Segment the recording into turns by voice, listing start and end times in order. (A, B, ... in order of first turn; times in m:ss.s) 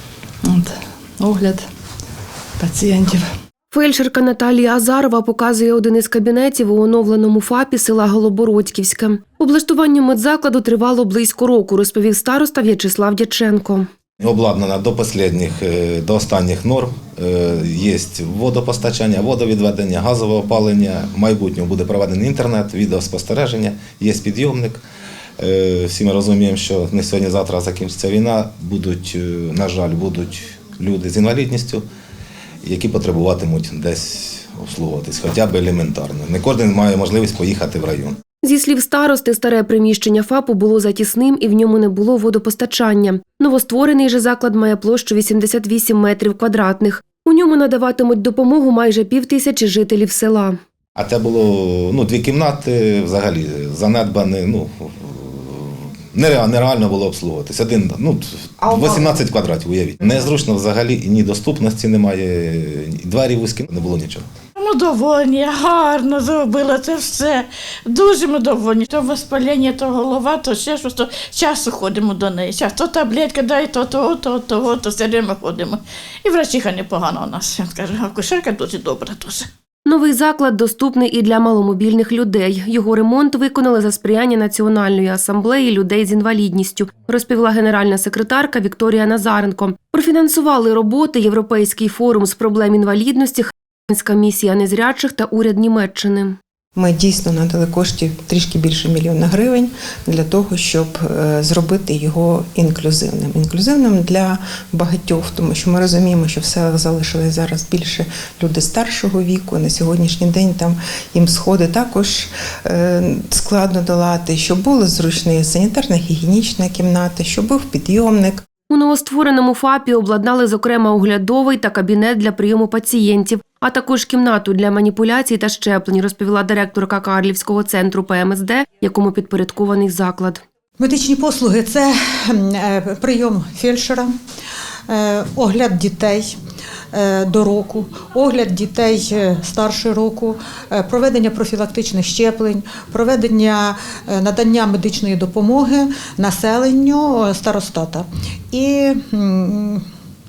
0:00.4-0:01.6 A
0:02.6-0:03.3 A
0:03.7-0:13.9 B
0:14.2-0:24.8 C
0:25.4-0:31.8 C
0:32.6-0:38.2 C
0:38.4-0:50.6 B
0:51.0-1:04.3 C
1:04.6-1:19.5 D
1:19.9-1:36.4 B
1:36.8-1:58.4 E
1:58.7-2:10.4 B
2:10.8-2:14.1 F
2:14.9-2:16.4 F
2:16.9-2:29.8 F